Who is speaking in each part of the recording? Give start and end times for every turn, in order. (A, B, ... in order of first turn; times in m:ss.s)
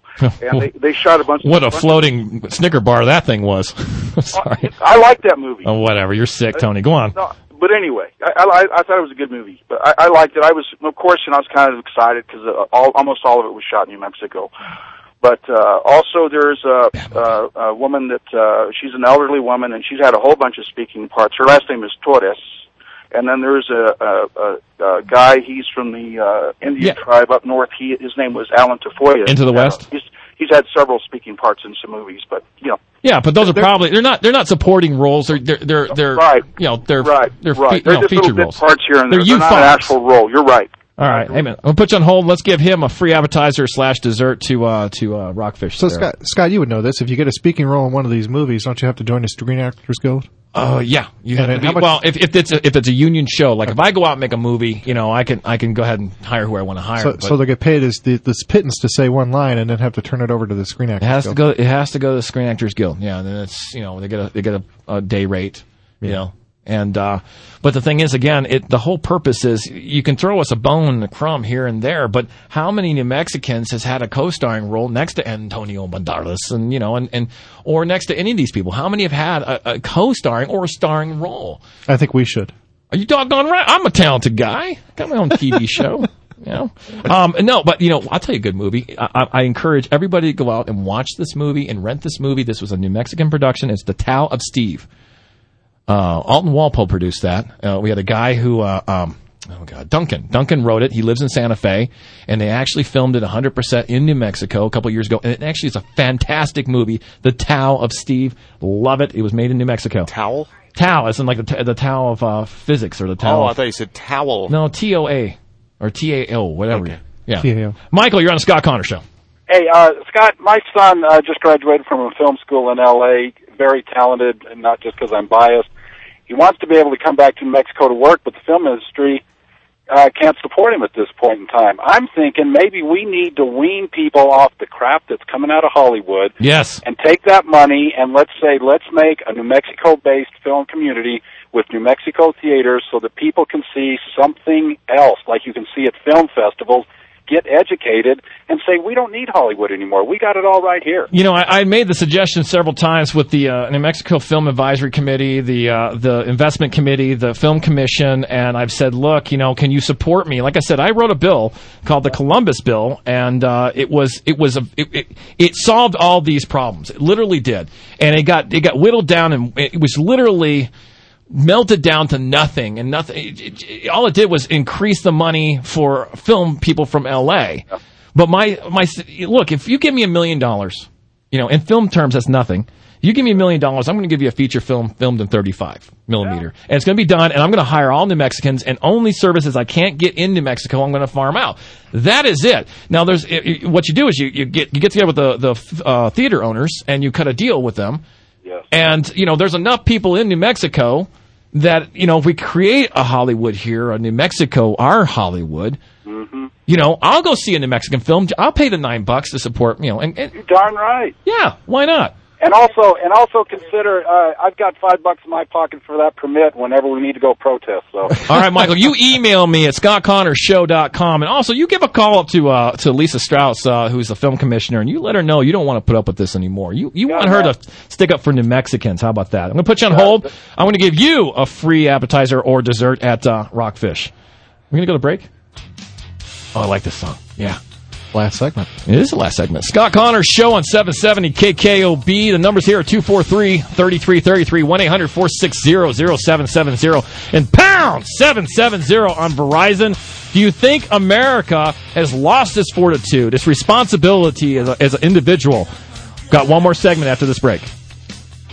0:00.2-0:00.7 A
0:00.4-0:02.1 B
0:01.4-0:04.7 A
0:04.3-0:05.7 B
0:05.6-0:07.2 A
0:06.5-0:14.5 B
0:15.2-0:22.4 B
0:23.1-0:32.8 B
0:29.3-0:29.8 A
0:33.0-0:39.9 A
0:36.0-0:36.5 B
0:37.0-0:41.4 B
0:41.0-0:46.1 A
0:45.8-0:50.3 C
0:50.5-0:57.4 A
0:51.3-0:52.0 C
0:57.0-1:01.4 C
1:01.0-1:21.6 A
1:21.9-1:22.5 C
1:22.9-1:34.9 A
1:35.9-1:50.1 A
1:50.1-1:50.5 D
1:50.8-1:53.6 A
1:53.2-1:54.5 D
1:54.5-1:59.0 A
1:56.7-1:57.0 D
1:57.4-1:57.8 C
1:59.5-2:05.6 E
1:59.6-2:01.1 B
2:06.3-2:09.2 E
2:09.9-2:16.3 E
2:16.4-2:16.8 A
2:16.9-2:31.0 E
2:31.1-2:50.7 A
2:51.3-3:18.0 A
3:18.7-3:25.8 A
3:26.1-3:26.5 B
3:26.7-3:30.4 A
3:30.3-3:31.1 B
3:31.2-3:32.2 A
3:32.4-3:38.0 E
3:33.5-3:33.8 B
3:38.2-3:54.1 A
3:47.1-3:47.5 B
3:54.7-3:55.3 A
3:56.5-3:57.6 A
3:58.1-3:58.7 C
3:58.9-4:15.7 A
4:16.3-4:17.7 A